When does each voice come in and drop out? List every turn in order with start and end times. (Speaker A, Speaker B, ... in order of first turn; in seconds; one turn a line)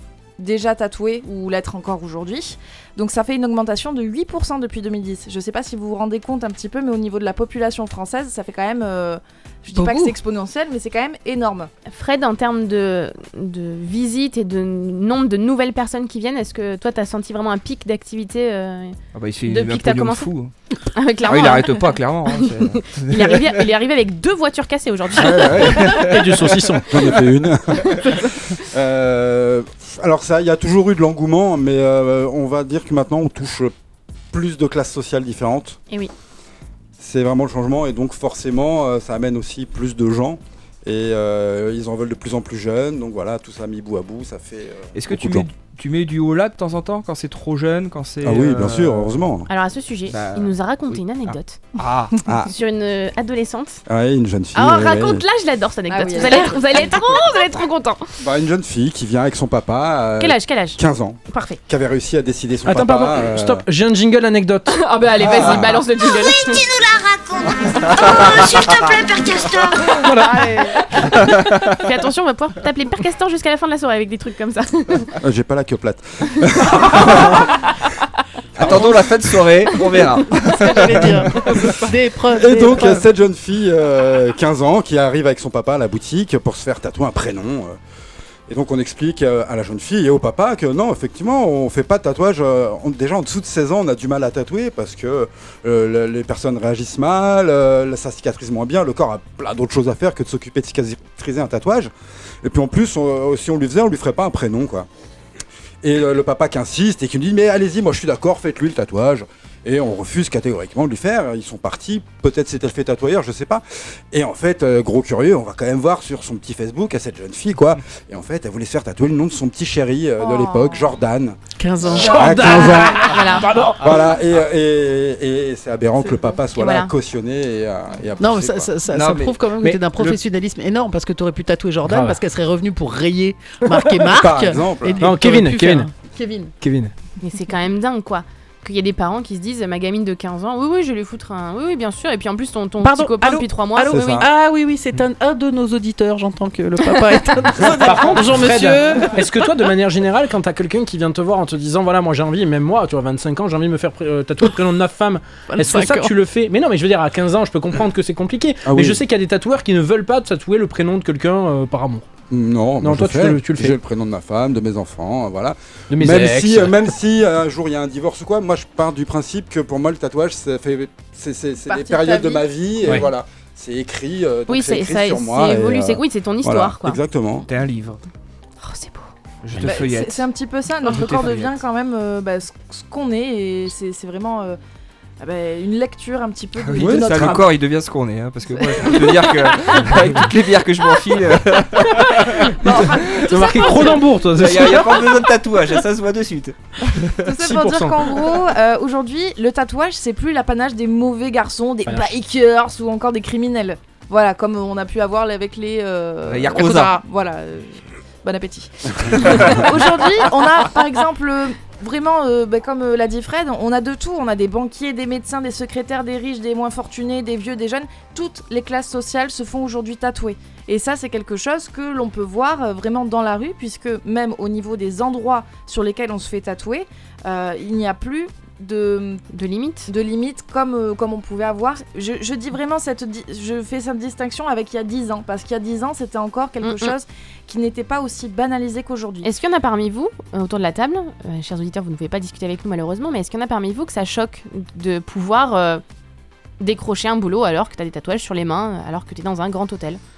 Speaker A: 0.4-11.7
Speaker B: 9.7-10.1
Speaker C: 11.9-20.3
Speaker D: 19.1-20.5
Speaker C: 20.9-21.8
Speaker D: 21.2-23.6
Speaker C: 22.4-26.0
Speaker D: 25.1-26.5
Speaker E: 25.9-26.9
Speaker F: 26.9-33.7
Speaker F: 34.3-35.8
Speaker F: 37.0-45.5
Speaker D: 44.9-49.2
Speaker F: 48.2-49.5
Speaker C: 49.5-51.6
Speaker D: 50.1-51.0
Speaker D: 51.8-52.1
Speaker F: 52.2-52.5
Speaker C: 52.5-53.8
Speaker F: 53.9-55.2
Speaker C: 54.5-58.2
Speaker A: 55.9-57.0
Speaker F: 58.2-63.6
Speaker C: 60.2-61.6
Speaker E: 62.6-64.8
Speaker C: 64.7-66.6
Speaker F: 65.2-65.8
Speaker G: 66.0-70.2
Speaker E: 70.0-70.5
Speaker C: 70.7-71.2
Speaker C: 71.7-75.1
Speaker F: 75.2-77.5
Speaker F: 78.5-79.4
Speaker D: 78.6-81.2
Speaker B: 80.4-83.0
Speaker F: 80.9-81.6
Speaker F: 82.3-87.8
Speaker F: 88.5-101.9
Speaker F: 102.4-104.9
Speaker F: 105.8-123.2
Speaker A: 120.2-120.9
Speaker B: 121.6-123.0
Speaker E: 122.0-124.0
Speaker C: 122.9-123.5
Speaker F: 123.8-128.7
Speaker C: 126.5-126.9
Speaker B: 128.2-136.5
Speaker D: 128.9-129.5
Speaker E: 131.8-132.2
Speaker F: 134.1-135.1
Speaker E: 135.0-135.9
Speaker E: 136.6-136.9
Speaker C: 137.2-144.2
Speaker B: 142.8-149.5
Speaker F: 143.9-144.3
Speaker E: 147.8-162.1
Speaker B: 155.5-156.1
Speaker F: 158.6-159.0
Speaker F: 162.3-177.5
Speaker E: 162.8-163.8
Speaker E: 165.9-166.8
Speaker A: 171.7-172.5
Speaker C: 174.5-177.0
Speaker D: 177.5-178.0
Speaker C: 178.6-179.1
Speaker D: 179.4-180.3
Speaker A: 179.6-184.6
Speaker D: 180.8-181.6
Speaker A: 185.2-187.5
Speaker D: 186.6-193.0
Speaker F: 186.8-187.4
Speaker A: 188.6-189.2
Speaker A: 192.6-194.1
Speaker E: 192.7-194.9
Speaker D: 194.3-196.6
Speaker A: 197.2-229.2
Speaker E: 197.4-198.1
Speaker E: 201.9-202.1
Speaker D: 206.2-207.0
Speaker D: 209.2-209.7
Speaker C: 229.3-229.9
Speaker A: 229.9-239.3
Speaker C: 236.6-236.9
Speaker C: 239.2-245.8
Speaker C: 246.6-250.0